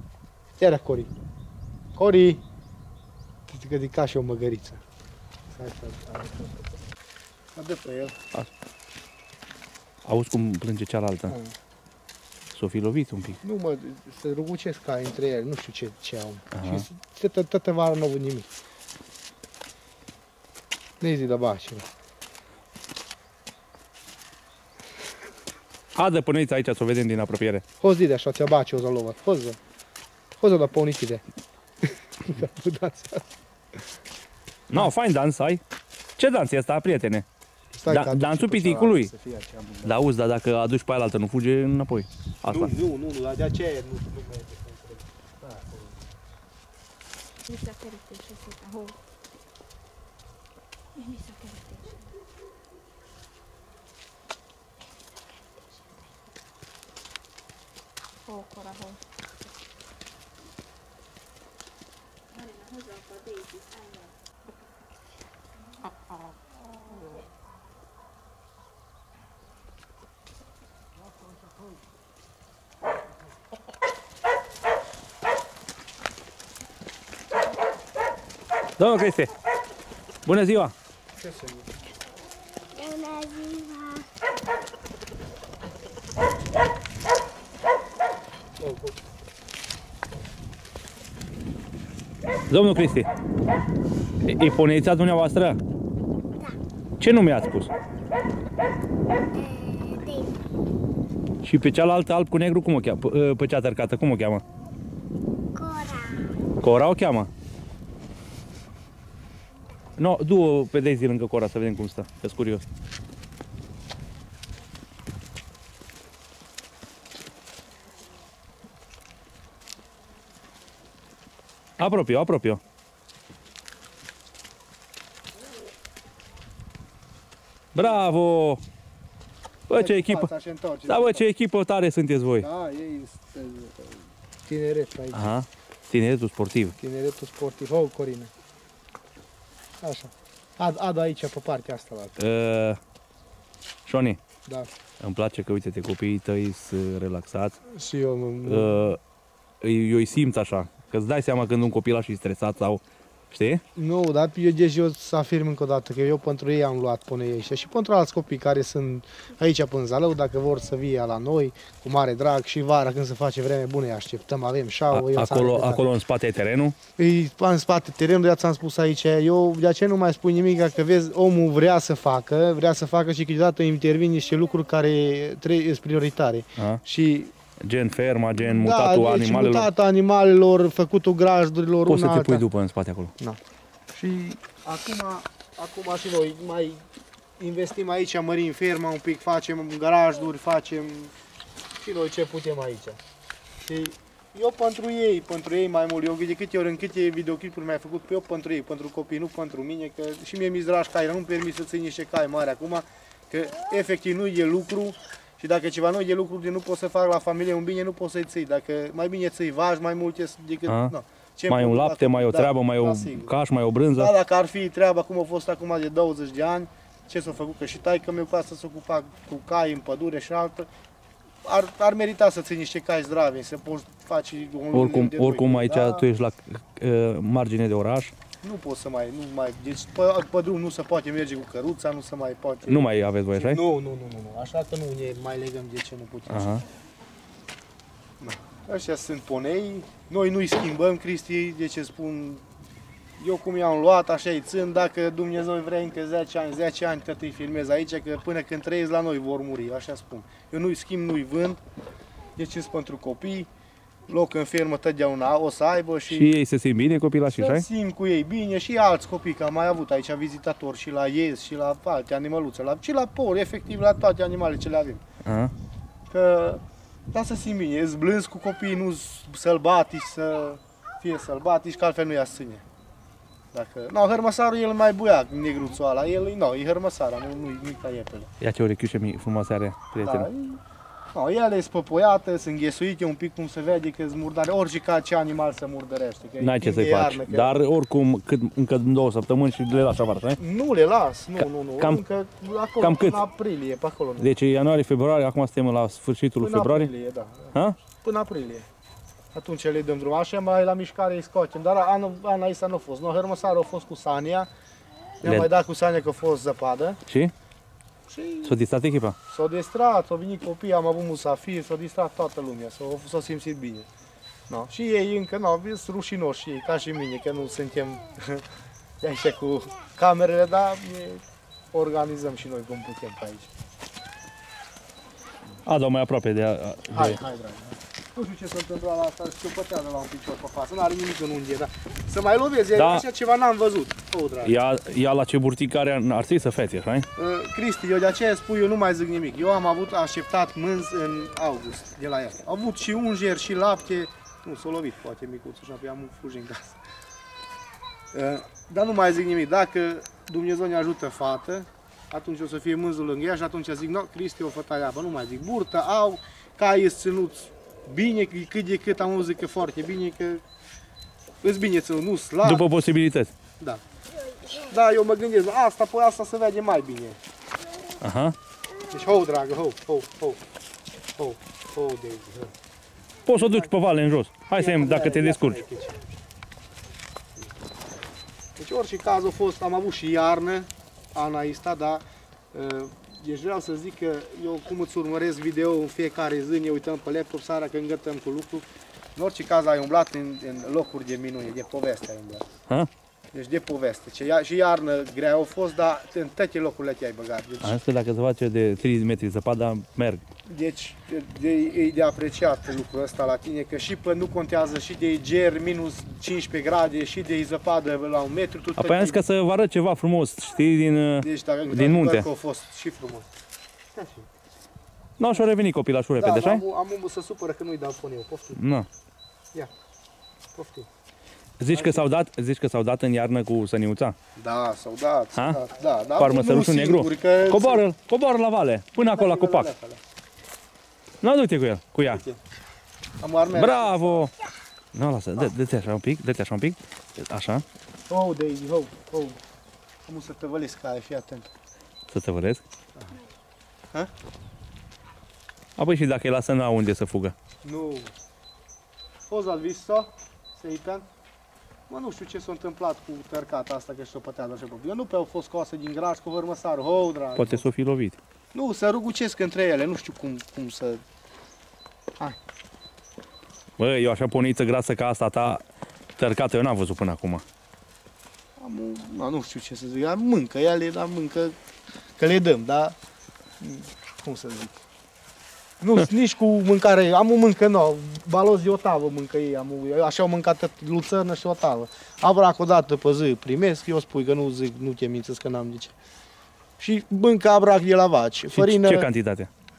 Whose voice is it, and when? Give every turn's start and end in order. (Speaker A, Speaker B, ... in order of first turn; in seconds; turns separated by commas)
Speaker A: 0.6-1.1, Speaker A: 1.9-2.4, Speaker A: 3.5-4.8, Speaker A: 5.5-6.5, Speaker A: 7.5-8.1, Speaker B: 10.0-11.3, Speaker A: 11.3-11.5, Speaker B: 12.5-13.4, Speaker A: 13.4-18.5, Speaker B: 16.5-16.8, Speaker A: 21.0-21.9, Speaker B: 25.9-27.6, Speaker A: 27.8-29.6, Speaker A: 30.4-31.2, Speaker A: 31.8-33.2, Speaker B: 34.7-35.6, Speaker B: 36.2-37.2, Speaker A: 37.7-40.0, Speaker B: 37.9-39.1, Speaker B: 39.8-42.7, Speaker A: 42.5-45.9, Speaker C: 47.5-49.0, Speaker C: 50.9-52.0, Speaker C: 58.3-59.0, Speaker C: 62.3-64.1, Speaker B: 78.8-79.3, Speaker B: 80.2-80.7, Speaker A: 81.2-81.7, Speaker D: 82.7-84.1, Speaker A: 88.6-88.9, Speaker B: 92.5-93.1, Speaker B: 94.2-95.6, Speaker B: 97.0-97.7, Speaker D: 99.4-100.3, Speaker B: 101.4-104.4, Speaker D: 105.5-106.2, Speaker B: 106.6-107.3, Speaker B: 110.0-112.6, Speaker B: 121.8-122.6, Speaker B: 127.7-128.6, Speaker B: 129.7-130.3, Speaker A: 129.7-131.2, Speaker B: 130.9-132.5, Speaker A: 132.4-135.3, Speaker B: 135.1-136.7, Speaker A: 136.8-138.3, Speaker A: 139.8-142.2, Speaker B: 142.2-142.8, Speaker B: 143.8-144.2, Speaker B: 145.0-147.6, Speaker A: 147.7-148.8, Speaker B: 148.4-149.0, Speaker B: 149.6-153.6, Speaker A: 153.8-165.8, Speaker B: 164.9-166.8, Speaker A: 167.0-177.3, Speaker B: 177.6-179.7, Speaker A: 178.4-182.4, Speaker B: 181.8-183.1, Speaker A: 183.9-186.8, Speaker A: 187.4-191.1, Speaker A: 191.8-193.0, Speaker A: 193.6-213.3, Speaker B: 210.7-210.9, Speaker B: 211.5-214.1, Speaker A: 213.9-220.7, Speaker A: 221.4-226.0, Speaker B: 224.7-228.1, Speaker A: 228.4-236.6, Speaker B: 232.7-233.6, Speaker B: 236.3-236.6, Speaker A: 238.2-242.4, Speaker A: 243.2-251.6, Speaker A: 252.3-253.5, Speaker A: 254.1-256.3, Speaker B: 256.1-257.6, Speaker A: 257.3-265.0, Speaker B: 265.2-265.5, Speaker A: 266.1-272.6, Speaker A: 273.5-278.3, Speaker B: 278.4-280.3, Speaker A: 280.0-280.6, Speaker A: 281.1-287.6, Speaker B: 286.4-290.4, Speaker A: 290.4-294.3, Speaker B: 291.4-292.0, Speaker B: 292.8-293.2, Speaker B: 294.2-296.9, Speaker A: 296.4-298.6, Speaker B: 297.5-297.8, Speaker A: 299.3-304.5, Speaker A: 305.2-307.0, Speaker B: 307.1-307.3, Speaker A: 308.1-308.6, Speaker B: 308.4-309.1, Speaker A: 309.3-313.9, Speaker A: 314.5-318.4, Speaker A: 319.0-323.5, Speaker B: 325.6-327.2, Speaker A: 326.9-334.5, Speaker B: 332.8-333.0, Speaker B: 334.4-337.1, Speaker A: 337.1-346.8, Speaker A: 348.1-360.4, Speaker A: 361.4-362.6, Speaker B: 362.4-363.3, Speaker A: 364.6-367.2, Speaker B: 368.0-368.4, Speaker A: 368.9-370.4, Speaker A: 371.2-372.5, Speaker B: 373.2-375.6, Speaker A: 373.3-373.7, Speaker A: 374.5-376.0, Speaker A: 378.6-392.4, Speaker A: 393.3-397.8, Speaker B: 397.6-400.2, Speaker A: 400.5-409.2, Speaker B: 408.8-412.3, Speaker A: 411.2-413.3, Speaker A: 413.9-414.3, Speaker B: 415.2-416.6, Speaker A: 416.2-418.6, Speaker B: 418.5-418.9, Speaker A: 420.5-420.9, Speaker B: 421.6-424.1, Speaker A: 421.7-422.1, Speaker A: 424.4-427.8, Speaker B: 426.2-429.7, Speaker A: 429.0-430.0, Speaker B: 431.2-432.2, Speaker A: 432.1-432.4, Speaker A: 433.2-434.3, Speaker B: 433.5-434.3, Speaker B: 434.9-437.6, Speaker A: 438.1-439.4, Speaker A: 440.1-441.5, Speaker B: 442.1-442.6, Speaker B: 445.8-447.3, Speaker A: 447.6-448.1, Speaker A: 449.3-451.1, Speaker A: 451.9-457.6, Speaker B: 457.4-458.2, Speaker A: 458.5-461.0, Speaker B: 463.8-465.6, Speaker B: 466.2-467.4, Speaker A: 468.6-471.5, Speaker A: 472.2-472.9, Speaker A: 473.6-474.7, Speaker A: 475.8-485.9, Speaker A: 486.8-489.1, Speaker B: 488.5-489.5